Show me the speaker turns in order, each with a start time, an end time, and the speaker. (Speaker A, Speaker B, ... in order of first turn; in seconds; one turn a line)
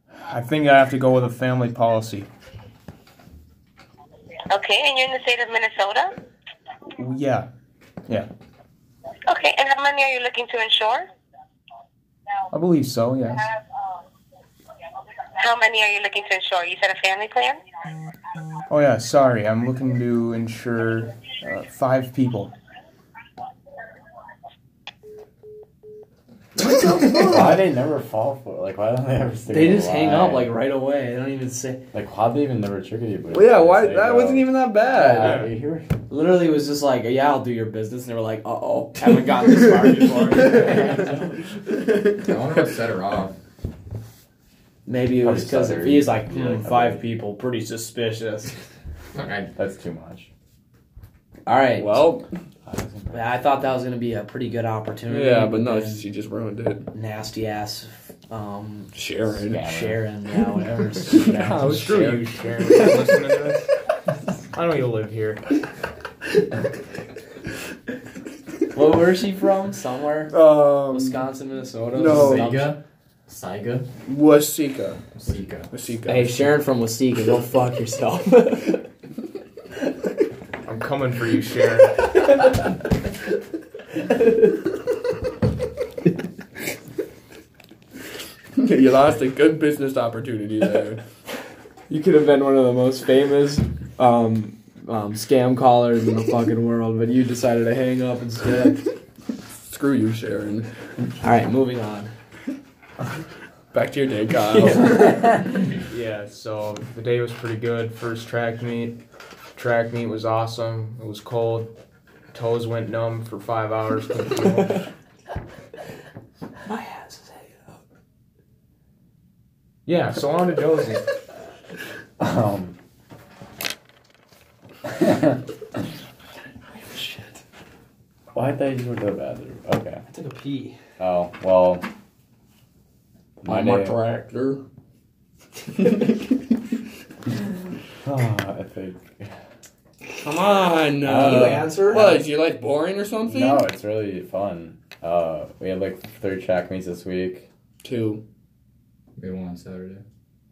Speaker A: 0.2-2.3
Speaker B: 4.5-6.1
Speaker A: 7.0-7.5
Speaker B: 9.3-11.1
Speaker A: 12.5-13.4
Speaker B: 15.3-17.6
Speaker A: 18.7-22.5
Speaker C: 27.1-30.5
Speaker D: 29.5-31.8
Speaker C: 31.9-35.9
Speaker E: 33.3-35.4
Speaker A: 35.1-35.5
Speaker D: 36.1-41.0
Speaker C: 40.4-41.4
Speaker F: 42.2-43.3
Speaker D: 44.9-48.5
Speaker C: 45.2-47.0
Speaker F: 49.1-49.5
Speaker C: 49.5-50.3
Speaker D: 51.5-52.1
Speaker E: 51.7-52.2
Speaker C: 52.6-53.8
Speaker D: 53.1-56.0
Speaker E: 55.1-56.8
Speaker D: 56.9-58.9
Speaker E: 58.9-59.6
Speaker C: 59.4-60.0
Speaker D: 59.6-61.4
Speaker C: 61.1-62.1
Speaker E: 61.2-62.2
Speaker A: 61.3-63.6
Speaker A: 64.5-65.4
Speaker D: 68.7-72.8
Speaker E: 70.3-71.3
Speaker E: 71.9-72.5
Speaker F: 72.0-73.9
Speaker E: 74.0-75.0
Speaker F: 75.1-75.7
Speaker E: 75.7-76.5
Speaker D: 76.0-78.8
Speaker A: 80.6-82.0
Speaker E: 88.6-91.0
Speaker D: 91.9-98.8
Speaker E: 97.2-98.7
Speaker E: 99.6-100.7
Speaker D: 101.2-102.1
Speaker E: 103.7-105.3
Speaker D: 104.5-105.4
Speaker A: 105.9-109.0
Speaker A: 109.5-111.7
Speaker A: 112.3-114.8
Speaker D: 116.7-117.5
Speaker A: 119.8-121.1
Speaker C: 122.2-122.8
Speaker C: 125.0-125.3
Speaker D: 126.7-127.3
Speaker C: 128.3-130.0
Speaker D: 130.1-130.8
Speaker C: 131.0-131.8
Speaker C: 133.4-134.0
Speaker E: 133.4-134.6
Speaker C: 138.0-139.3
Speaker E: 140.2-143.7
Speaker C: 141.0-141.8
Speaker D: 141.1-142.2
Speaker C: 143.2-147.5
Speaker E: 147.8-148.2
Speaker F: 149.2-150.0